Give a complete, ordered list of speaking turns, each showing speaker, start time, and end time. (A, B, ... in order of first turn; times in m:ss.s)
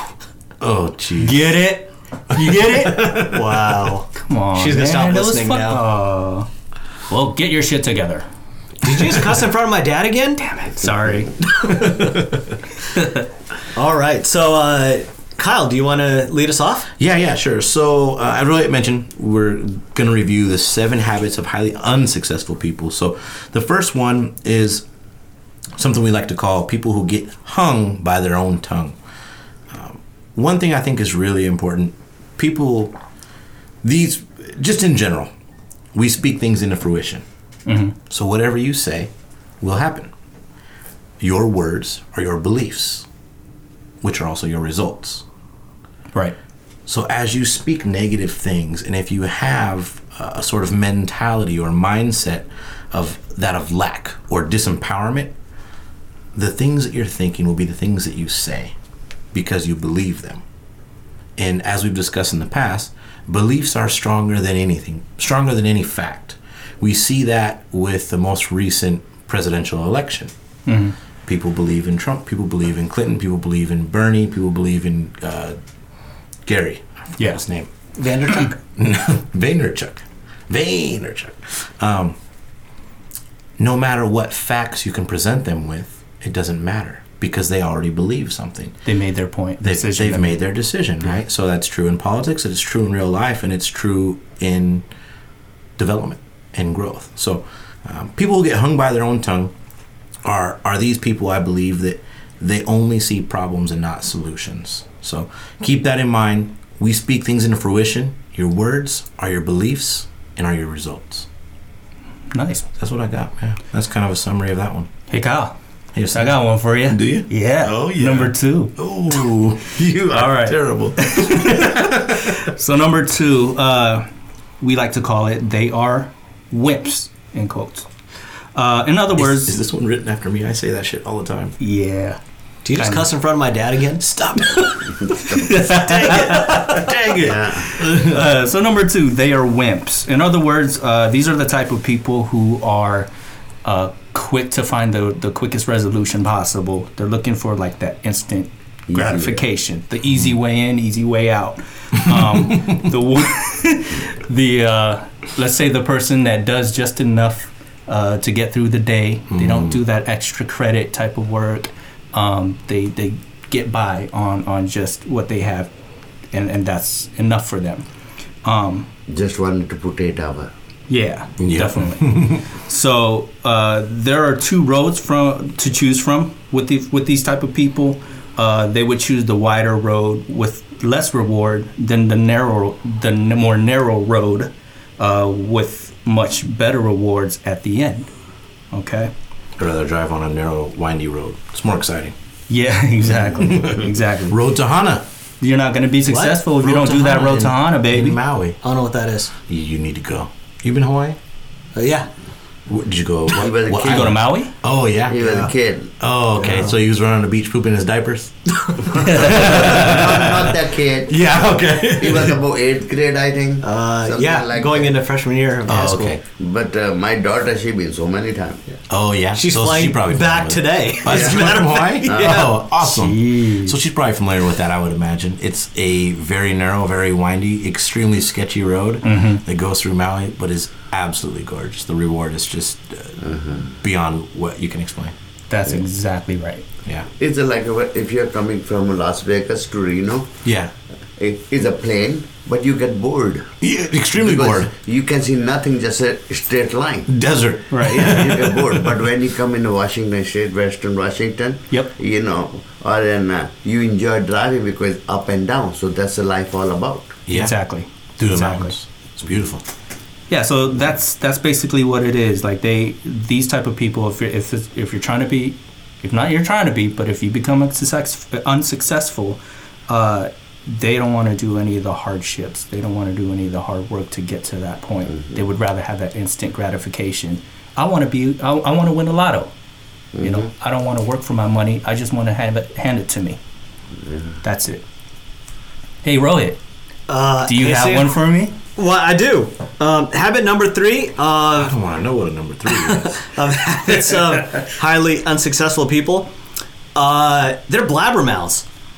0:00.6-0:01.5 A
0:01.2-0:03.2 B
0:01.4-0:01.8 C
0:02.4-0:03.6 A
0:02.5-0:05.8 C
0:04.1-0:06.5 B
0:07.1-0:08.3 B
0:08.8-0:12.2 C
0:10.8-0:11.4 B
0:11.6-0:12.2 A
0:12.9-0:13.2 B
0:13.7-0:16.9 C
0:17.0-0:24.8 A
0:25.8-0:29.0 A
0:29.7-0:33.0 A
0:33.8-0:35.3 A
0:35.9-0:37.2 A
0:37.6-0:38.0 B
0:38.1-0:40.1 A
0:41.2-0:43.0 A
0:44.0-0:45.2 A
0:46.9-0:55.3 A
0:56.3-0:58.7 A
0:59.3-1:00.4 A
1:01.4-1:10.3 A
1:10.6-1:10.9 B
1:11.2-1:15.6 A
1:16.4-1:17.7 A
1:17.2-1:17.4 B
1:18.0-1:18.5 C
1:18.3-1:22.2 A
1:23.6-1:28.8 A
1:28.8-1:30.4 B
1:29.6-1:34.8 A
1:35.8-1:39.5 A
1:40.2-1:51.3 A
1:52.3-1:52.7 B
1:52.8-1:54.9 A
1:55.1-1:55.6 B
1:55.9-2:02.4 A
1:56.1-1:58.8 B
2:00.1-2:04.0 B
2:04.6-2:07.9 B
2:08.5-2:09.6 B
2:09.2-2:11.6 A
2:11.6-2:12.2 B
2:12.6-2:14.2 C
2:12.8-2:13.1 B
2:14.1-2:14.9 A
2:15.0-2:16.9 B
2:15.7-2:16.8 C
2:15.9-2:18.2 A
2:17.2-2:17.7 D
2:17.6-2:23.1 B
2:23.6-2:45.7 B
2:28.9-2:29.4 D
2:39.3-2:39.8 A
2:46.3-2:47.8 B
2:48.4-2:48.9 B
2:49.1-2:50.5 D
2:50.9-3:08.1 B
2:51.4-2:52.4 A
3:08.7-3:09.1 B
3:09.6-3:12.1 A
3:12.5-3:14.4 B
3:13.2-3:15.0 A
3:15.4-3:18.2 B
3:16.0-3:16.4 C
3:16.6-3:18.6 A
3:18.6-3:19.3 C
3:19.5-3:21.2 A
3:21.7-3:22.1 C
3:22.7-3:25.4 A
3:23.3-3:24.2 D
3:23.8-3:24.5 B
3:25.1-3:25.9 D
3:25.2-3:25.5 C
3:26.0-3:32.4 A
3:26.4-3:26.8 C
3:29.0-3:34.9 D
3:33.6-3:36.1 C
3:35.7-3:36.2 A
3:36.4-3:38.6 D
3:38.9-3:55.1 A
3:39.3-3:42.5 C
3:41.1-3:41.4 D
3:42.0-3:42.5 D
3:42.8-3:43.8 B
3:49.0-3:49.4 B
3:53.2-3:53.7 D
3:55.5-3:56.6 B
3:57.2-4:00.3 D
4:00.4-4:00.7 A
4:01.2-4:03.5 D
4:03.6-4:04.7 A
4:04.2-4:07.1 D
4:07.1-4:09.0 A
4:07.7-4:08.2 B
4:07.9-4:17.2 D
4:17.3-4:17.6 A
4:17.3-4:18.7 B
4:18.2-4:19.6 A
4:20.3-4:39.5 B
4:40.2-4:40.5 D
4:40.2-4:43.4 B
4:44.4-4:44.8 B
4:46.0-4:46.6 B
4:47.1-4:48.1 C
4:47.4-4:48.6 B
4:48.8-4:51.7 C
4:51.6-4:53.3 A
4:52.7-4:56.3 C
4:56.9-4:58.6 C